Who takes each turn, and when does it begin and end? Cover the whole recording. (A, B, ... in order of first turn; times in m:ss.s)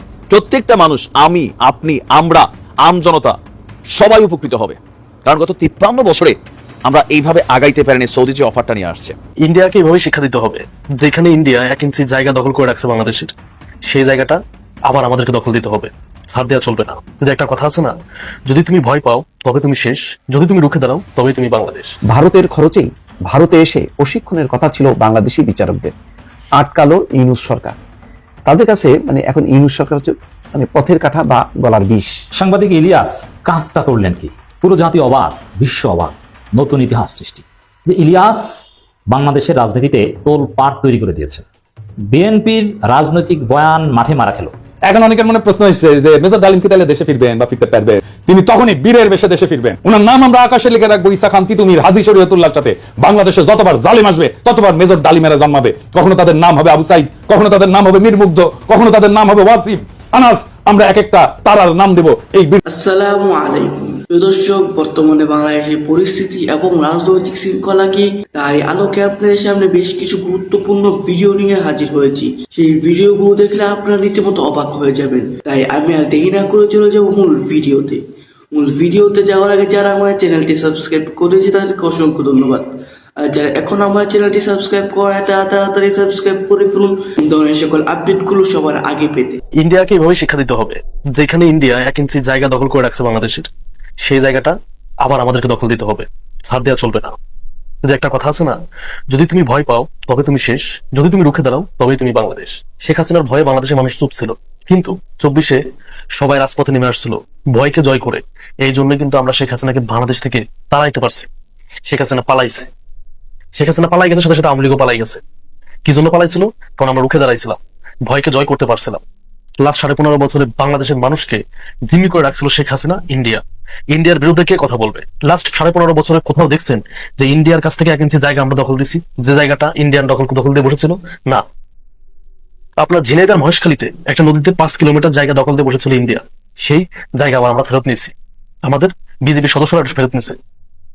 0:00.3-0:03.3 A
0:03.9-0:09.2 A
0:09.4-0:13.3 B
0:13.8-0:17.9 B
0:18.5-0:21.9 B
0:22.1-0:25.9 C
0:26.6-0:27.8 C
0:28.5-0:32.1 C
0:32.4-0:41.4 D
0:42.1-0:44.5 D
0:44.9-1:02.6 E
1:02.7-1:18.0 F
1:18.5-1:22.7 F
1:23.2-1:29.4 F
1:29.6-1:33.5 B
1:34.0-1:37.2 B
1:37.8-1:38.6 B
1:39.1-1:45.6 B
1:46.2-1:51.3 B
1:51.9-1:52.7 B
1:53.6-1:55.2 B
1:55.8-1:59.0 B
1:59.6-2:11.4 B
2:12.8-2:18.1 B
2:18.6-2:20.4 B